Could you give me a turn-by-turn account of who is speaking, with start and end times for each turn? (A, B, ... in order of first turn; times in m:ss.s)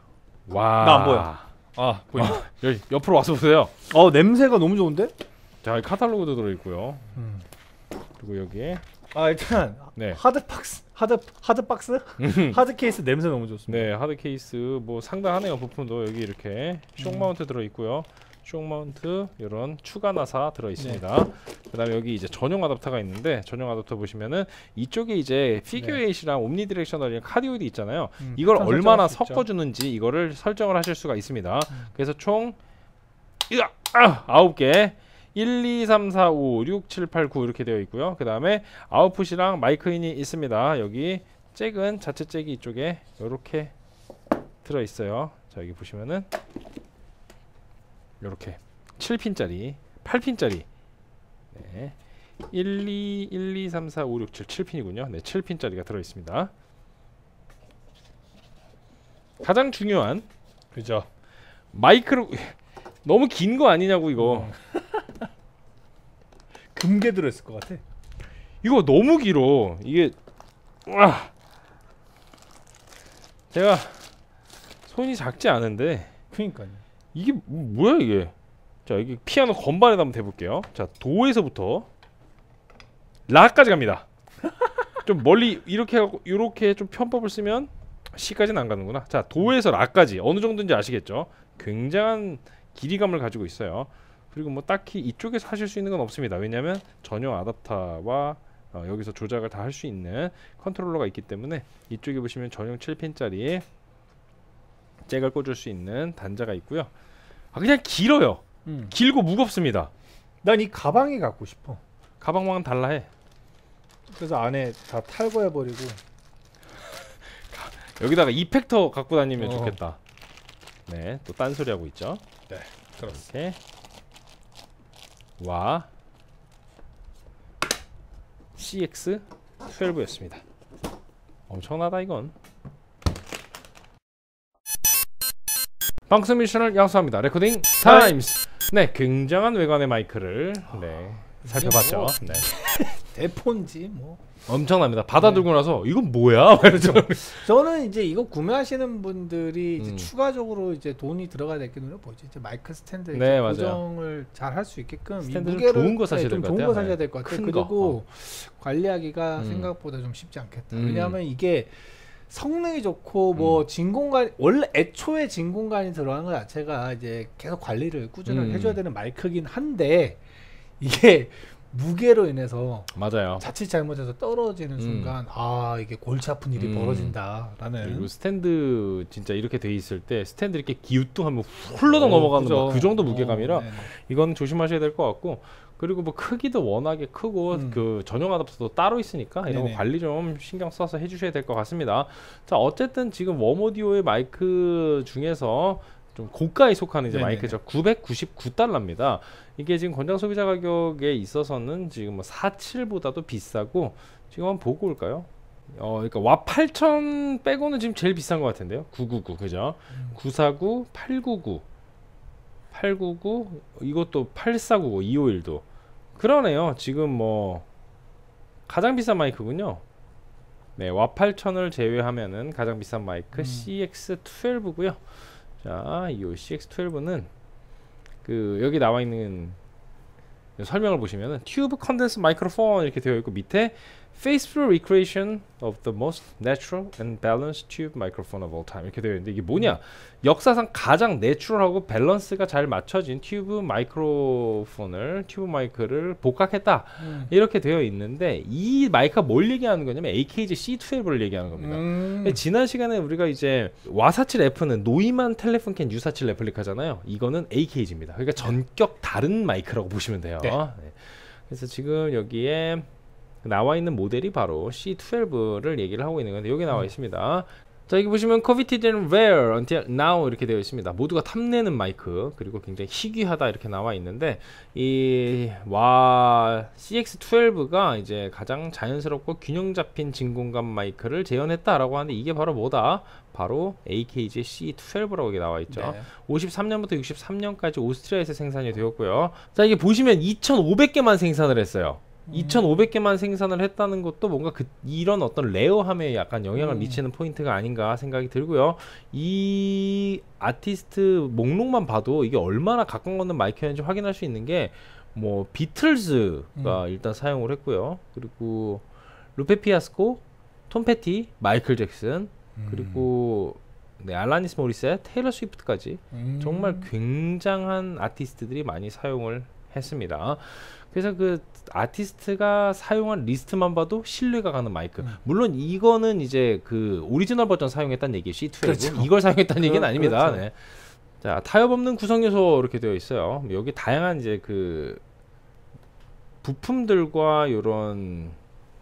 0:00.5-0:01.5 A
0:00.8-0:02.4 B
0:02.1-0:03.7 A
0:03.9-0:05.1 B
0:05.6-0:07.1 A
0:07.2-0:07.4 B
0:08.2-0:08.8 A
0:09.1-0:13.9 B
0:12.2-0:12.6 A
0:13.7-0:32.6 A
0:17.0-0:17.3 B
0:20.8-0:21.0 B
0:28.2-0:29.4 B
0:33.5-0:43.7 A
0:44.6-0:46.3 A
0:48.2-0:50.7 A
0:51.5-0:52.0 A
0:52.5-0:56.5 A
0:59.4-1:00.3 A
1:00.7-1:01.1 B
1:01.7-1:04.5 A
1:04.2-1:05.3 B
1:06.7-1:07.8 B
1:08.6-1:10.2 A
1:10.9-1:11.3 A
1:13.5-1:14.1 A
1:14.9-1:16.1 A
1:16.3-1:16.8 B
1:17.1-1:18.3 A
1:18.9-1:21.9 A
1:23.3-1:24.1 A
1:25.0-1:43.6 A
1:45.1-1:46.9 A
1:47.5-1:49.9 A
1:48.6-1:49.0 B
1:50.4-1:51.8 B
1:52.2-1:53.1 A
1:54.1-1:56.0 B
1:56.9-2:00.0 A
1:59.4-1:59.8 B
2:00.9-2:02.2 A
2:02.5-2:03.2 B
2:03.0-2:03.6 A
2:05.4-2:05.9 A
2:08.6-2:10.4 A
2:11.5-2:12.3 A
2:16.1-2:22.4 A
2:17.8-2:18.2 B
2:21.4-2:24.2 B
2:24.5-2:27.4 A
2:25.2-2:25.5 B
2:26.5-2:41.8 B
2:29.8-2:30.1 A
2:33.1-2:33.8 A
2:35.2-2:38.0 A
2:39.4-2:39.7 A
2:40.7-2:41.2 A
2:42.3-2:50.2 B
2:43.4-2:43.6 A
2:48.3-2:48.8 A
2:50.8-2:58.1 B
2:52.9-2:53.4 A
2:54.8-2:55.2 A
2:56.6-2:57.2 A
2:57.8-3:31.6 A
3:01.8-3:03.9 B
3:07.5-3:07.8 B
3:09.5-3:09.8 B
3:17.1-3:17.6 B
3:32.7-3:35.6 A
3:36.2-3:37.6 A
3:38.7-3:39.8 A
3:40.8-3:45.0 A
3:43.4-3:43.7 B
3:45.6-3:47.3 A
3:48.2-3:49.6 A
3:50.6-4:22.9 A
4:07.0-4:07.3 B
4:11.6-4:12.4 B
4:23.4-5:08.8 A
4:45.7-4:46.1 B
4:52.3-4:52.7 B
4:56.6-4:57.0 B
5:09.4-5:35.0 A
5:12.6-5:13.1 B
5:16.1-5:16.9 B
5:28.6-5:30.4 B
5:36.4-5:38.4 A